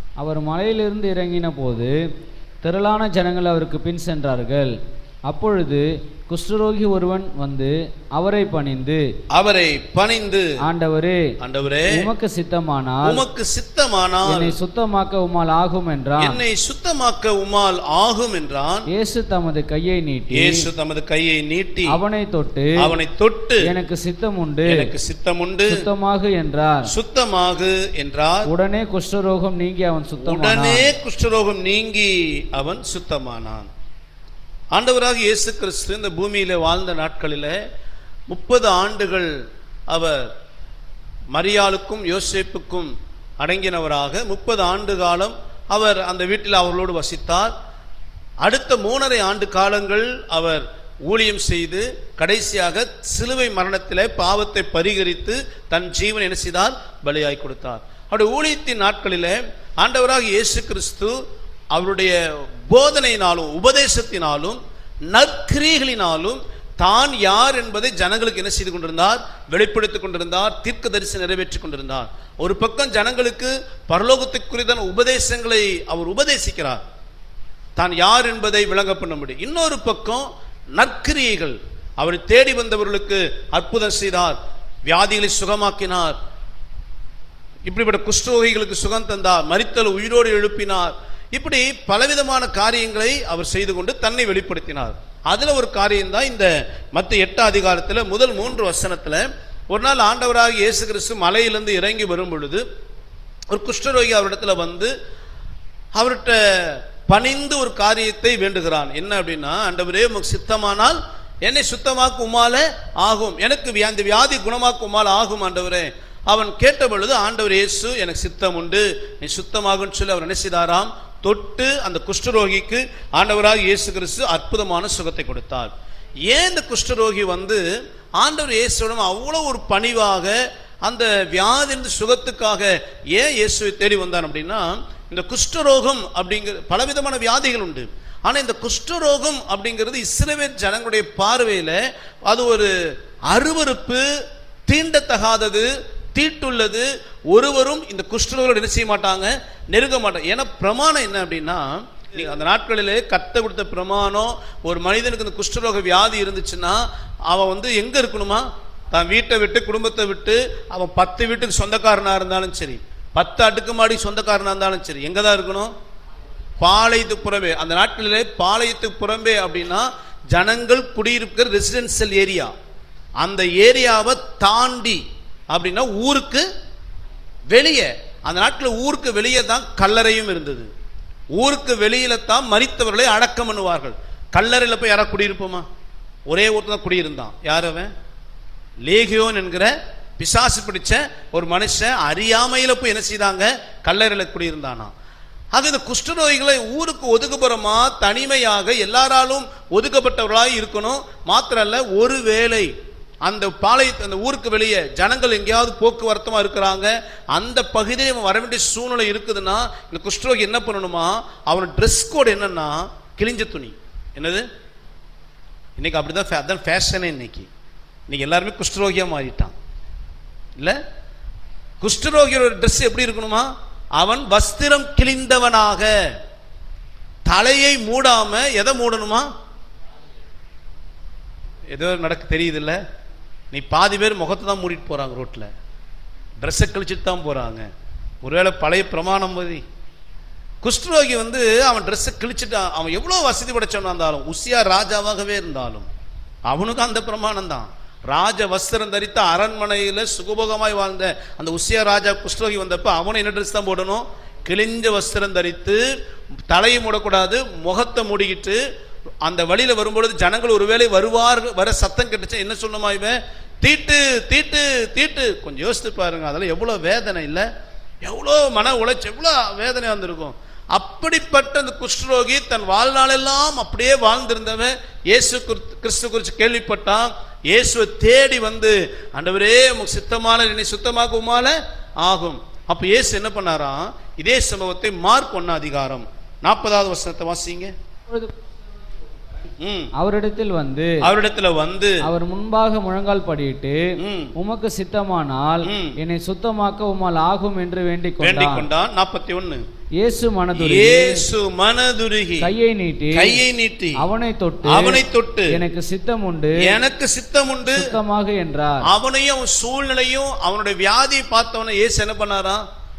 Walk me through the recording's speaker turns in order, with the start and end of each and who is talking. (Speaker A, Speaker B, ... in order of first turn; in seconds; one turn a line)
Speaker A: 0.2-1.9
Speaker A: 2.6-4.7
Speaker A: 5.3-9.0
Speaker B: 9.3-10.5
Speaker A: 10.6-11.2
Speaker B: 11.4-12.0
Speaker A: 11.9-13.2
Speaker B: 13.0-14.5
Speaker A: 14.2-16.4
Speaker B: 16.2-18.9
Speaker A: 18.9-20.6
Speaker B: 20.3-22.0
Speaker A: 21.9-22.8
Speaker B: 22.8-23.7
Speaker A: 23.6-24.9
Speaker B: 24.7-25.8
Speaker A: 25.7-26.9
Speaker B: 26.9-28.5
Speaker A: 28.4-30.9
Speaker B: 30.2-33.7
Speaker B: 34.7-37.5
Speaker B: 38.3-39.3
Speaker B: 39.9-40.3
Speaker B: 41.3-47.5
Speaker B: 48.4-61.2
Speaker B: 61.7-76.8
Speaker B: 77.8-86.2
Speaker B: 87.7-102.6
Speaker B: 103.5-104.9
Speaker B: 105.9-125.7
Speaker B: 126.3-127.6
Speaker B: 128.2-142.7
Speaker B: 143.3-144.1
Speaker B: 144.7-165.7
Speaker B: 166.6-172.5
Speaker B: 173.2-176.4
Speaker B: 177.5-180.7
Speaker B: 181.3-185.7
Speaker B: 186.3-187.9
Speaker B: 188.8-194.9
Speaker B: 195.5-202.7
Speaker B: 203.2-214.4
Speaker B: 215.8-217.5
Speaker B: 218.1-219.5
Speaker B: 221.8-225.9
Speaker B: 227.2-229.3
Speaker B: 231.7-232.8
Speaker B: 233.5-235.5
Speaker B: 236.4-237.7
Speaker B: 238.2-239.6
Speaker B: 240.6-245.9
Speaker B: 246.5-255.8
Speaker B: 256.5-258.6
Speaker B: 259.2-267.4
Speaker B: 268.0-287.7
Speaker B: 289.6-289.9
Speaker A: 290.0-290.9
Speaker B: 291.0-292.0
Speaker A: 292.0-293.8
Speaker B: 294.0-294.3
Speaker A: 294.4-298.7
Speaker B: 295.6-296.0
Speaker B: 298.2-299.6
Speaker A: 300.0-301.2
Speaker B: 300.5-302.5
Speaker A: 302.4-303.4
Speaker B: 303.1-304.0
Speaker A: 304.0-306.7
Speaker B: 304.6-305.6
Speaker B: 306.6-307.9
Speaker A: 307.7-308.9
Speaker B: 308.8-312.6